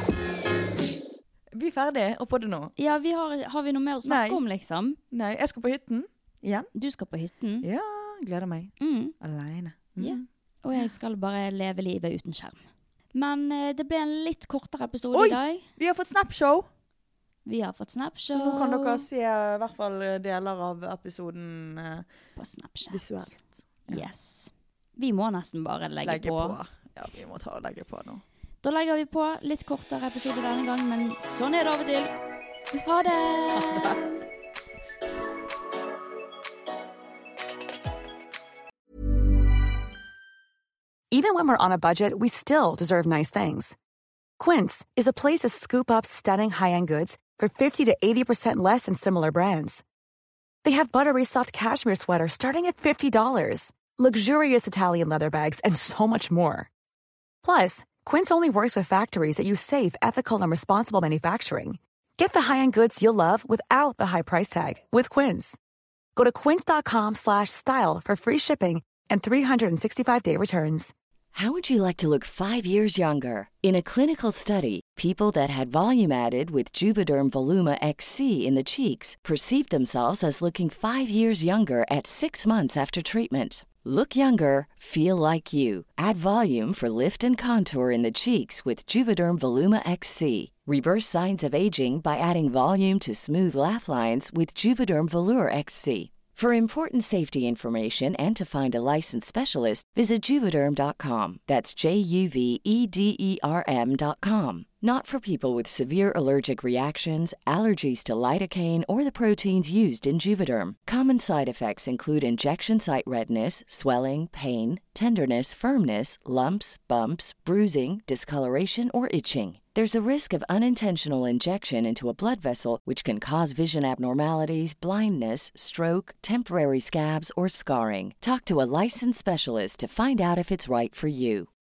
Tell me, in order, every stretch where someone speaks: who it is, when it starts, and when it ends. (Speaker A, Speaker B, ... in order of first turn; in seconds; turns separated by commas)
Speaker A: 1.5-2.7, Speaker B: 2.8-5.0, Speaker A: 4.0-4.4, Speaker A: 5.1-6.7, Speaker B: 6.7-7.7, Speaker A: 7.6-10.9, Speaker B: 8.8-9.1, Speaker B: 10.0-12.6, Speaker B: 13.1-15.6, Speaker A: 15.1-16.7, Speaker B: 17.4-19.1, Speaker A: 18.3-22.1, Speaker B: 22.4-23.0, Speaker A: 22.9-24.1, Speaker B: 23.9-26.6, Speaker A: 26.0-28.2, Speaker B: 28.6-32.1, Speaker B: 32.8-34.1, Speaker C: 41.1-43.8, Speaker C: 44.4-49.8, Speaker C: 50.6-56.7, Speaker C: 57.4-65.6, Speaker C: 66.2-70.9, Speaker D: 71.3-131.5